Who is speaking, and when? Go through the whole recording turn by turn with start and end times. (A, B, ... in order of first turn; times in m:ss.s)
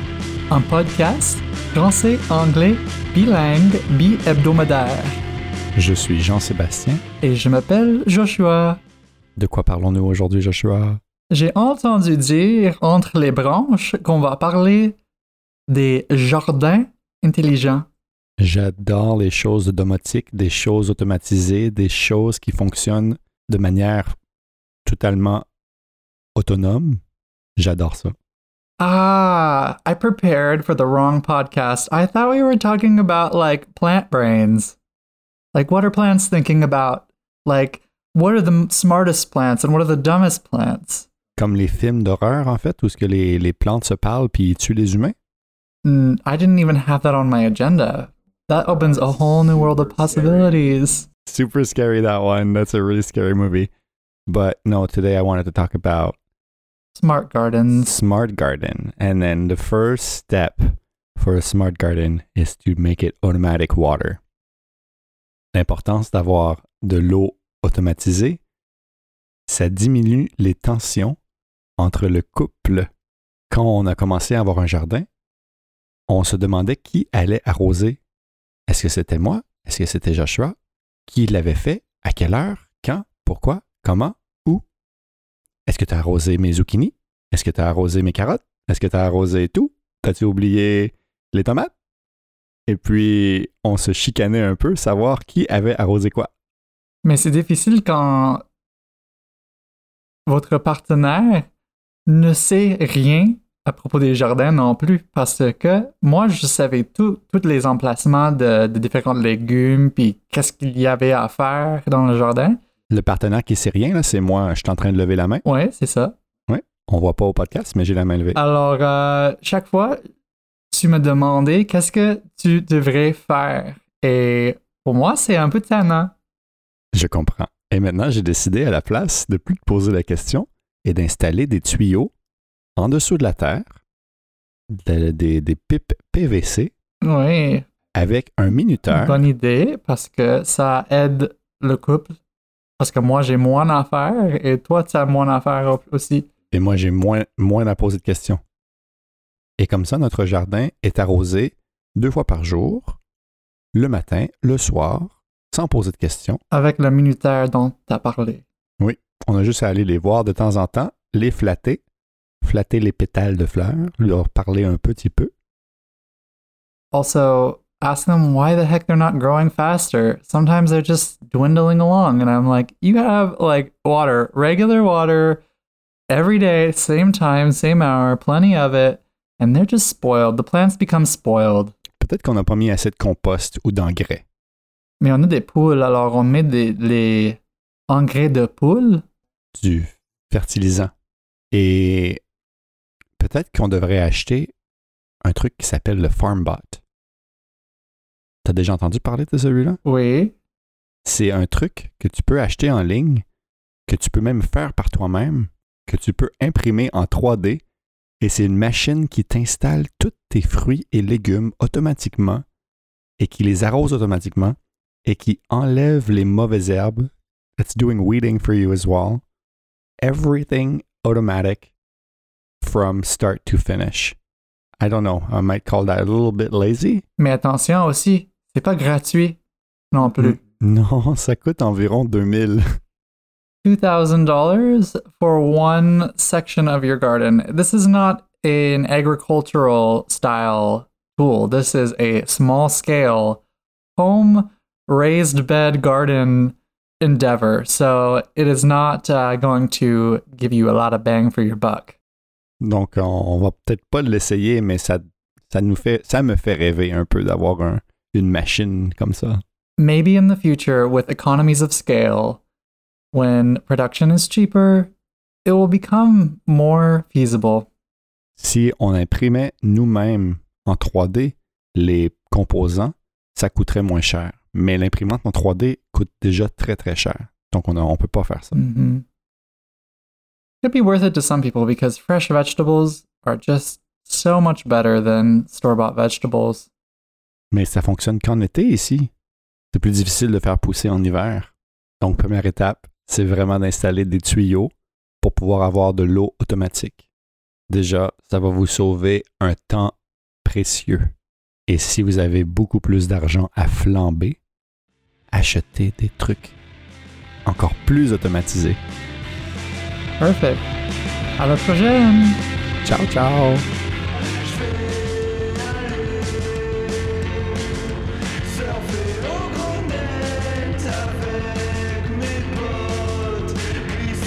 0:00.5-0:05.2 A
0:05.8-0:07.0 B
0:07.2-0:08.8 A
0:09.4-0:11.0 B
0:11.3-0:15.0 A
0:15.7-0:17.9 A
0:18.4-0:24.1 B
0:24.8-0:25.4 B
0:26.4-0:27.0 B
0:27.6-0:28.2 B
0:28.8-0:34.8 A
0:35.5-0:41.1 A
0:41.4-0:45.1 B
0:45.8-0:51.0 A
0:51.2-0:53.7 B
0:54.3-0:56.2 B
0:56.9-0:57.9 A
0:57.7-1:04.2 B
1:05.5-1:08.4 B
1:09.5-1:11.2 B
1:11.8-1:12.9 B
1:13.5-1:15.1 B
1:16.1-1:18.0 B
1:18.7-1:24.6 B
1:25.7-1:31.7 B
1:32.7-1:36.3 B
1:37.0-1:38.4 A
1:40.3-1:41.5 A
1:42.1-1:52.6 A
1:52.9-1:55.4 B
1:55.4-1:56.1 A
1:56.5-1:58.4 B
1:58.3-2:00.0 A
2:00.7-2:06.1 A
2:06.9-2:12.1 B
2:12.8-2:13.7 B
2:14.7-2:16.7 B
2:17.0-2:17.7 A
2:17.9-2:19.2 B
2:18.9-2:22.2 A
2:22.8-2:26.3 A
2:26.5-2:28.4 B
2:29.6-2:33.0 B
2:33.7-2:36.4 B
2:36.5-2:38.4 A
2:38.8-2:41.8 B
2:42.4-2:45.3 B
2:46.9-2:55.4 A
2:56.1-3:01.7 A
3:02.0-3:04.2 B
3:05.0-3:09.0 A
3:09.5-3:10.9 B
3:11.5-3:12.2 B
3:13.2-3:14.5 B
3:15.2-3:16.8 B
3:18.4-3:19.8 B
3:19.8-3:20.3 A
3:21.0-3:23.2 B
3:23.9-3:27.6 B
3:28.2-3:32.4 B
3:33.2-3:39.2 B
3:40.0-3:41.7 B
3:42.6-3:44.2 B
3:44.8-3:47.0 B
3:47.2-3:49.4 A
3:49.9-3:50.4 A
3:50.2-3:52.6 B
3:53.6-4:03.4 A
4:04.0-4:12.0 A
4:12.6-4:19.4 B
4:19.8-4:22.4 A
4:23.1-4:24.9 A
4:25.4-4:27.7 A
4:28.4-4:38.6 B
4:38.5-4:39.0 A
4:40.6-4:46.7 A
4:47.5-4:49.1 B
4:49.7-4:54.7 B
4:55.2-4:57.0 B
4:57.7-5:01.1 B
5:01.7-5:04.4 B
5:05.3-5:06.6 B
5:07.4-5:08.8 B
5:10.2-5:10.7 A
5:11.4-5:12.4 A
5:12.8-5:13.7 B
5:23.0-5:23.7 A